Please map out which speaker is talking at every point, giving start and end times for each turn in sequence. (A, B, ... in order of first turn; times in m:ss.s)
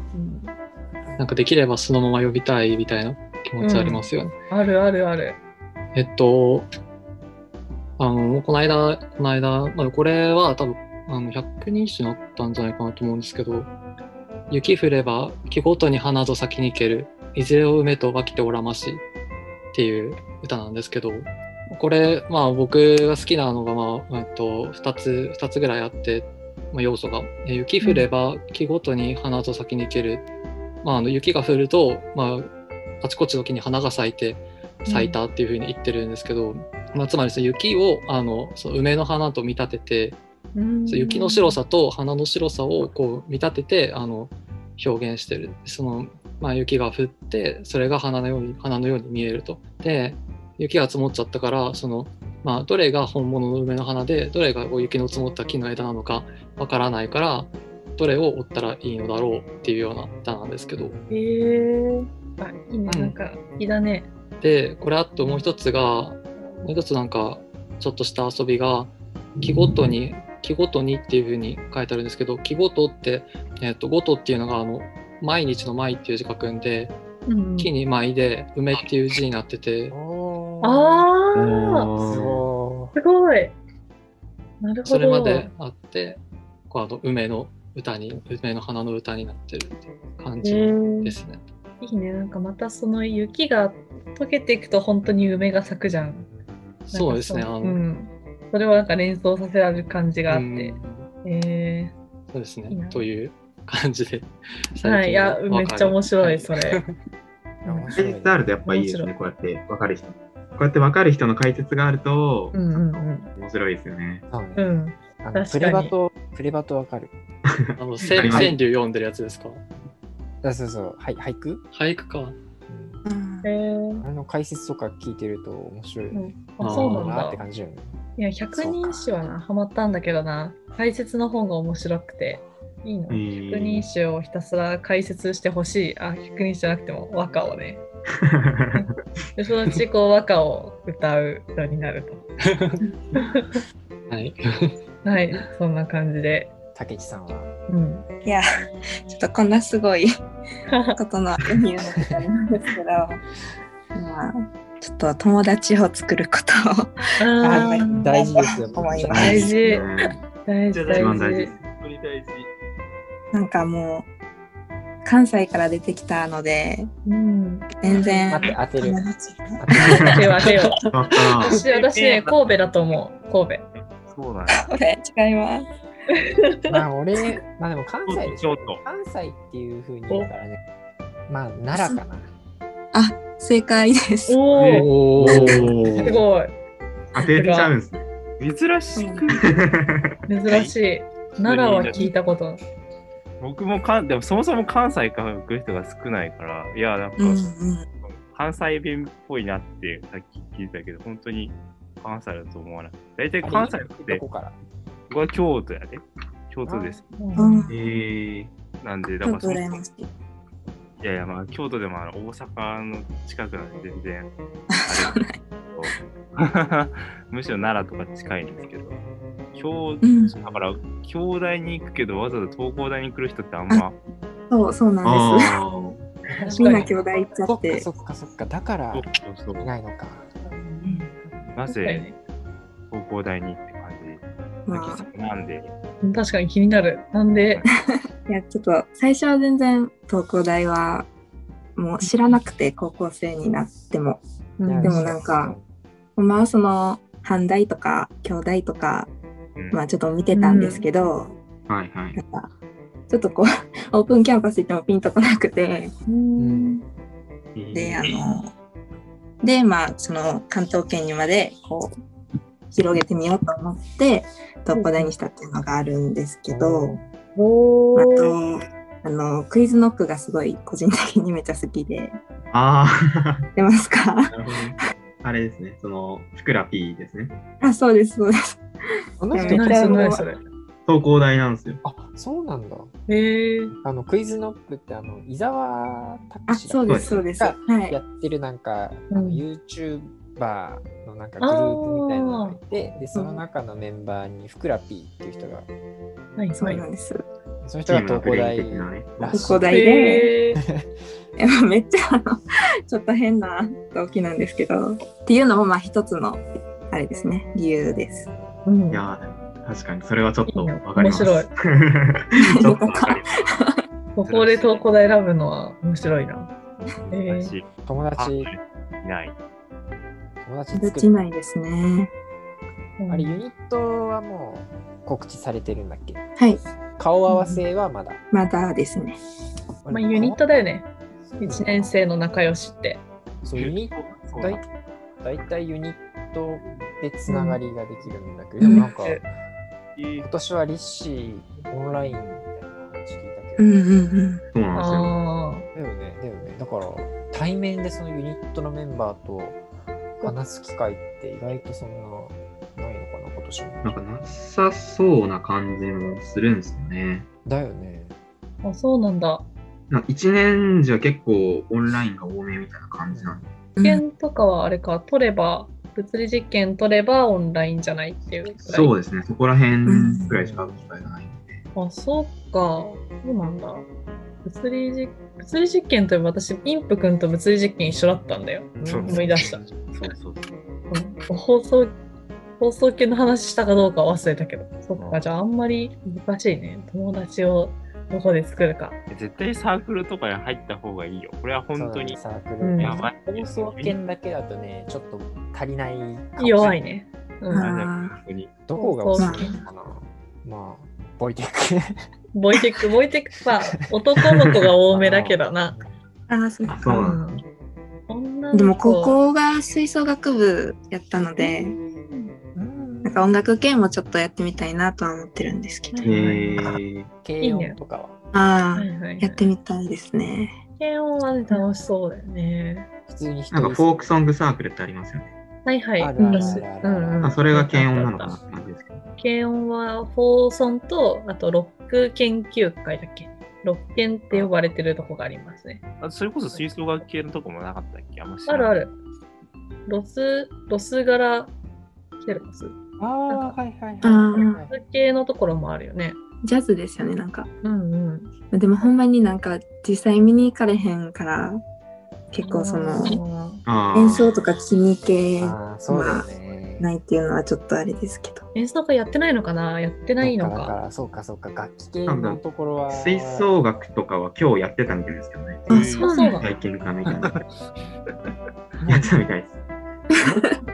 0:00.1-0:00.5 A
0:01.2-0:04.3 B
0:03.6-0:05.4 A
0:05.9-0:06.7 B
0:08.0-0:13.7 B
0:14.5-0:19.0 B
0:19.7-0:30.2 B
0:27.8-0:28.1 A
0:30.8-0:32.5 B
0:33.0-0:40.2 B
0:34.9-0:35.2 A
0:40.5-0:41.6 A
0:40.9-1:01.0 B
1:01.1-1:04.1 A
1:02.9-1:03.1 B
1:04.4-1:16.9 B
1:17.3-1:17.7 A
1:17.6-1:19.9 B
1:19.9-1:21.1 C
1:20.6-1:21.9 A
1:21.3-1:22.4 D
1:22.0-1:22.9 C
1:23.0-1:23.6 A
1:24.6-1:25.5 A
1:24.8-1:31.4 B
1:30.4-1:31.1 A
1:31.8-1:36.3 A
1:36.9-1:37.8 B
1:36.9-1:41.9 A
1:40.3-1:41.1 B
1:42.3-1:46.9 B
1:42.7-1:43.0 A
1:44.8-1:46.8 A
1:47.6-1:47.9 A
1:47.6-1:48.4 C
1:47.9-1:54.2 D
1:48.6-1:49.1 A
1:52.5-1:53.3 A
1:54.3-1:54.7 C
1:54.6-1:55.9 A
1:55.2-1:57.1 C
1:57.5-1:58.5 D
1:57.8-1:59.6 B
1:58.2-1:58.5 C
2:00.4-2:01.6 C
2:01.7-2:02.4 B
2:02.7-2:03.0 C
2:03.0-2:03.5 E
2:03.4-2:04.0 A
2:04.0-2:07.9 C
2:06.1-2:07.4 A
2:06.6-2:07.2 B
2:08.2-2:17.8 A
2:08.5-2:09.0 C
2:13.1-2:13.9 D
2:18.2-2:18.9 D
2:18.7-2:22.2 A
2:22.5-2:22.8 B
2:23.1-2:23.6 A
2:24.1-2:24.8 B
2:25.0-2:26.5 A
2:26.7-2:27.5 C
2:27.7-2:28.0 A
2:29.1-2:30.1 E
2:30.7-2:31.0 A
2:30.9-2:33.2 E
2:33.9-2:39.6 E
2:37.2-2:38.1 A
2:37.4-2:39.7 C
2:39.1-2:40.2 D
2:39.1-2:39.9 A
2:40.4-2:41.5 A
2:40.7-2:42.5 F
2:40.9-2:41.7 D
2:43.3-2:44.1 E
2:45.0-2:46.9 E
2:47.0-2:48.4 A
2:47.8-2:49.6 E
2:48.3-2:49.0 C
2:49.6-2:50.3 C
2:49.8-2:50.2 D
2:49.9-2:50.8 A
2:50.9-2:51.6 D
2:51.4-2:53.6 A
2:51.6-2:52.6 F
2:54.0-2:54.6 F
2:54.5-2:55.6 E
2:56.1-2:56.6 A
2:56.7-3:00.6 C
2:58.1-2:58.8 F
3:01.3-3:02.3 C
3:02.9-3:04.4 E
3:04.3-3:04.9 A
3:04.5-3:04.9 F
3:04.7-3:05.6 B
3:05.2-3:06.2 D
3:06.0-3:06.5 A
3:07.1-3:08.0 D
3:07.3-3:07.7 A
3:08.4-3:09.6 F
3:09.0-3:09.3 E
3:09.4-3:10.2 D
3:10.3-3:12.6 A
3:10.4-3:10.7 F
3:11.3-3:12.1 F
3:13.4-3:17.5 F
3:17.2-3:17.9 E
3:18.0-3:24.2 F
3:23.4-3:24.6 C
3:25.1-3:27.1 F
3:27.2-3:27.6 A
3:27.4-3:27.7 E
3:27.7-3:28.5 D
3:28.8-3:29.8 F
3:29.2-3:30.1 E
3:31.0-3:34.3 F
3:34.7-3:35.4 E
3:34.8-3:39.0 F
3:39.5-3:44.0 F
3:40.0-3:40.3 E
3:44.5-3:45.6 E
3:45.0-3:46.1 D
3:46.4-3:47.0 A
3:46.4-3:47.8 E
3:46.6-3:46.8 C
3:47.4-3:50.3 C
3:48.9-3:49.7 F
3:50.4-3:52.2 A
3:51.5-3:52.1 F
3:52.9-3:55.7 F
3:54.7-3:55.0 E
3:56.0-3:57.6 A
3:57.4-3:57.7 F
3:58.3-4:01.1 E
4:01.8-4:04.2 E
4:04.6-4:05.1 A
4:04.6-4:05.6 C
4:04.8-4:05.6 E
4:06.2-4:09.1 E
4:09.6-4:09.8 F
4:09.7-4:11.4 E
4:10.3-4:10.8 A
4:11.7-4:12.2 D
4:12.2-4:12.5 E
4:13.1-4:15.9 E
4:16.1-4:16.8 A
4:16.4-4:16.8 C
4:17.6-4:18.0 D
4:17.7-4:18.5 E
4:19.4-4:22.0 E
4:22.7-4:27.0 E
4:24.7-4:25.1 A
4:26.5-4:27.0 C
4:27.4-4:28.3 A
4:28.0-4:32.2 E
4:32.5-4:33.5 D
4:33.6-4:34.4 E
4:34.3-4:37.3 D
4:37.6-4:38.6 E
4:39.2-4:40.2 C
4:39.3-4:40.3 E
4:39.4-4:40.4 A
4:40.8-4:41.8 D
4:41.8-4:42.9 C
4:43.1-4:43.7 A
4:43.8-4:55.7 C
4:46.5-4:48.0 E
4:46.9-4:47.2 D
4:49.1-4:49.4 A
4:51.4-4:52.6 A
4:53.1-4:53.4 E
4:56.4-4:56.8 A
4:56.6-4:57.2 E
4:57.6-4:59.9 C
4:57.9-4:59.4 D
4:59.3-5:00.3 E
4:59.7-5:00.6 A
5:00.6-5:00.9 C
5:01.4-5:08.3 E
5:07.8-5:08.6 C
5:08.6-5:09.0 A
5:08.9-5:13.3 D
5:10.5-5:11.5 A
5:12.6-5:13.8 E
5:14.2-5:16.5 A
5:14.2-5:15.0 F
5:16.8-5:19.3 F
5:17.1-5:17.5 A
5:17.8-5:18.5 C
5:20.4-5:21.1 C
5:20.7-5:22.1 E
5:23.0-5:23.4 A
5:23.1-5:26.2 C
5:27.0-5:28.2 C
5:27.3-5:27.6 A
5:28.3-5:29.2 E
5:29.8-5:30.4 C
5:29.9-5:30.9 A
5:31.2-5:31.9 C
5:31.4-5:33.0 A
5:33.4-5:34.6 C
5:33.6-5:34.6 F
5:35.2-5:39.3 C
5:36.6-5:36.9 F
5:37.3-5:37.6 A
5:38.6-5:38.9 E
5:38.7-5:39.2 A
5:40.0-5:40.3 F
5:40.2-5:43.7 C
5:41.9-5:42.1 F
5:43.6-5:44.4 E
5:44.5-5:45.2 D
5:44.7-5:45.7 A
5:45.7-5:49.6 C
5:50.2-5:53.8 C
5:53.8-5:57.2 D
5:57.4-5:58.1 C
5:58.6-5:59.4 A
5:59.9-6:03.4 D
6:03.1-6:03.5 C
6:03.8-6:04.0 E
6:03.8-6:08.9 A
6:08.7-6:11.6 D
6:09.9-6:10.3 E
6:10.3-6:10.8 C
6:11.8-6:13.8 A
6:14.4-6:19.6 A
6:18.8-6:19.5 C
6:18.9-6:20.6 F
6:20.9-6:21.9 A
6:22.6-6:29.0 A
6:25.0-6:25.2 F
6:29.1-6:32.2 F
6:31.7-6:36.8 C
6:32.6-6:33.0 A
6:32.8-6:34.0 F
6:36.4-6:37.7 A
6:37.5-6:38.1 E
6:37.6-6:38.5 F
6:38.6-6:42.0 C
6:38.7-6:39.6 A
6:39.2-6:39.6 E
6:42.3-6:45.8 A
6:44.9-6:45.9 C
6:46.3-6:47.2 E
6:46.7-6:47.4 D
6:46.9-6:47.4 A
6:48.1-6:49.2 A
6:48.5-6:51.8 E
6:51.4-6:52.3 A
6:52.5-6:53.4 C
6:53.0-6:56.1 E
6:55.9-6:56.6 A
6:56.0-6:57.1 D
6:57.2-6:58.1 C
6:57.4-6:57.8 A
6:58.3-7:00.6 E
6:58.8-6:59.4 A
7:00.8-7:02.9 A
7:03.1-7:04.1 C
7:03.5-7:05.3 D
7:05.6-7:08.3 A
7:06.0-7:07.7 C
7:06.2-7:06.6 E
7:07.2-7:09.0 D
7:09.2-7:15.8 A
7:16.0-7:18.9 F
7:18.4-7:18.9 A
7:19.9-7:21.5 A
7:22.2-7:22.8 A
7:23.0-7:24.8 C
7:23.3-7:23.6 A
7:24.0-7:24.6 E
7:24.3-7:26.2 A
7:26.4-7:27.5 E
7:27.6-7:28.3 A
7:28.5-7:31.6 E
7:32.3-7:33.2 E
7:32.4-7:33.6 A
7:33.6-7:34.3 D
7:33.9-7:36.2 E
7:35.4-7:36.9 C
7:36.8-7:38.4 E
7:38.5-7:40.8 A
7:40.2-7:43.5 C
7:42.1-7:45.7 D
7:45.7-7:46.4 E
7:45.7-7:46.2 F
7:46.0-7:46.5 A
7:46.4-7:47.3 D
7:47.1-7:47.4 F
7:48.8-7:49.6 D